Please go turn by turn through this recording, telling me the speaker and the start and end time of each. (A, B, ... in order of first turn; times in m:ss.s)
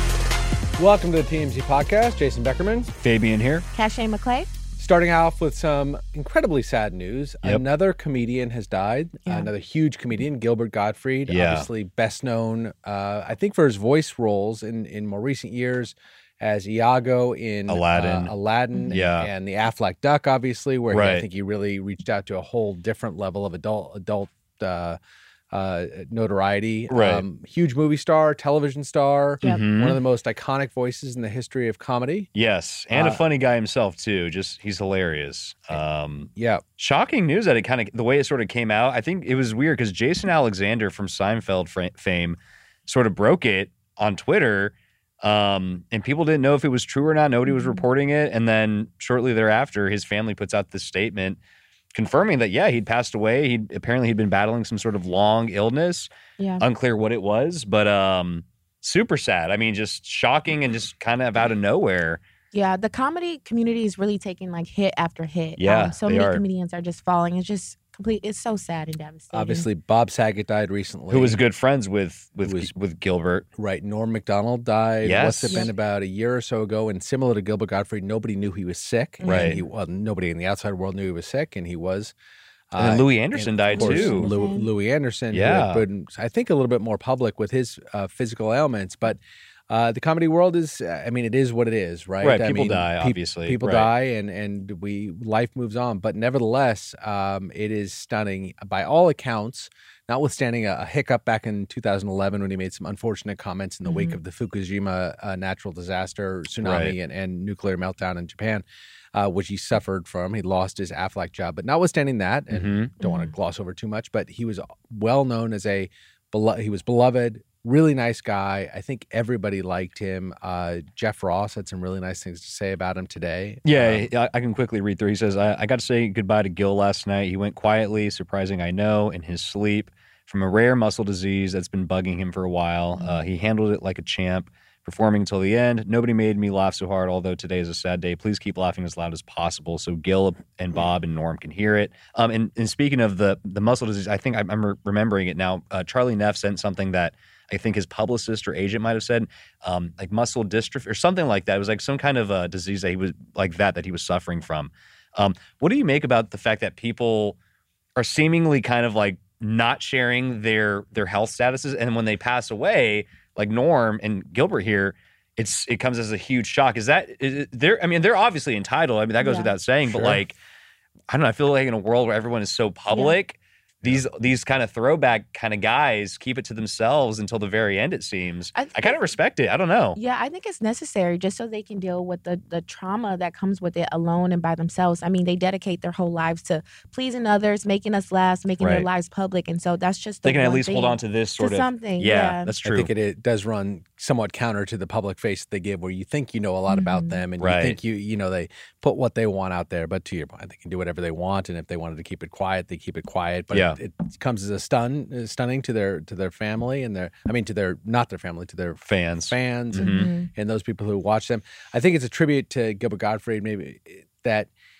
0:00.8-0:02.9 A
0:03.0-0:03.6 B
0:03.7-0:04.5 C
0:04.8-0:25.0 A
0:11.3-0:11.7 B
0:17.7-0:18.3 B
0:18.9-0:19.3 B
0:20.9-0:21.2 B
0:25.5-0:32.3 A
0:26.9-0:27.2 B
0:29.4-0:30.0 B
0:32.3-0:51.4 B
0:32.9-0:33.2 A
0:36.4-0:36.6 A
0:47.5-0:47.8 C
0:51.9-1:02.2 B
0:56.4-0:56.6 C
1:02.5-1:09.7 C
1:05.6-1:06.4 B
1:09.3-1:11.4 A
1:11.1-1:13.4 B
1:12.4-1:12.7 A
1:13.6-1:22.1 A
1:15.0-1:15.7 B
1:19.2-1:19.6 C
1:19.2-1:19.6 B
1:22.7-2:04.1 A
1:22.8-1:24.3 B
1:23.7-1:24.7 C
1:25.3-1:25.8 B
1:32.2-1:33.9 B
1:43.8-1:44.2 C
1:46.6-1:46.9 B
1:52.5-1:52.9 B
1:53.0-1:53.3 C
2:03.6-2:37.4 B
2:38.0-2:50.4 B
2:49.2-2:49.5 C
2:49.8-2:50.2 A
2:51.1-3:00.0 B
2:52.9-2:53.2 C
2:58.5-2:59.0 C
2:59.9-3:12.5 C
3:08.6-3:08.9 B
3:10.2-3:12.9 B
3:12.6-3:34.5 A
3:16.7-3:17.2 C
3:17.4-3:17.8 B
3:23.5-3:23.8 B
3:28.9-3:30.1 B
3:29.8-3:30.3 C